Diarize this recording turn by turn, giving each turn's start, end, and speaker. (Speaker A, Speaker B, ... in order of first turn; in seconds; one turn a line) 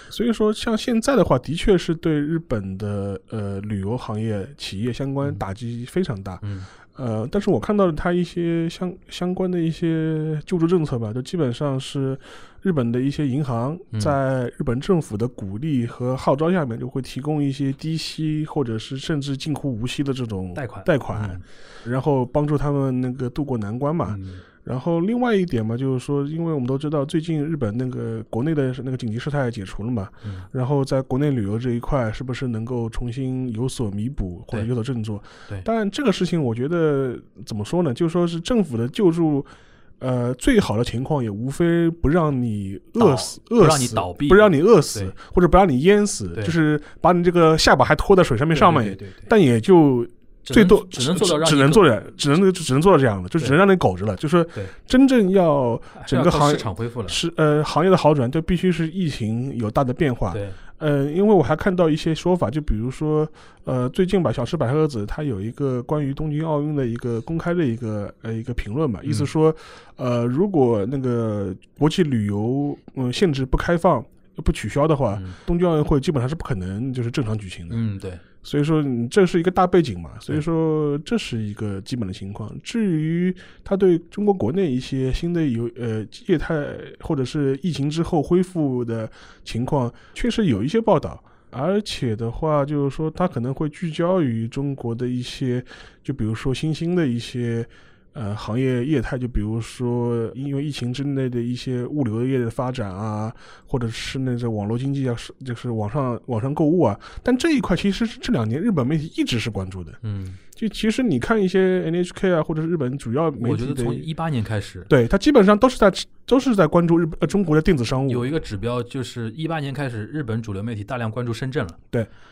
Speaker A: 0.1-6.4
Speaker B: 6.4-6.7
Speaker A: 7.0-77.8
Speaker B: 20.6-21.4
Speaker B: 24.1-24.4
Speaker B: 43.0-45.1
Speaker B: 48.5-49.3
Speaker B: 50.5-52.0
Speaker B: 56.0-57.2
Speaker B: 60.3-60.6
Speaker B: 69.0-69.3
Speaker B: 77.7-78.2
Speaker A: 78.4-110.0
Speaker B: 110.0-110.4
Speaker A: 110.6-114.1
Speaker B: 113.4-114.9
Speaker A: 114.9-118.3
Speaker B: 118.1-121.8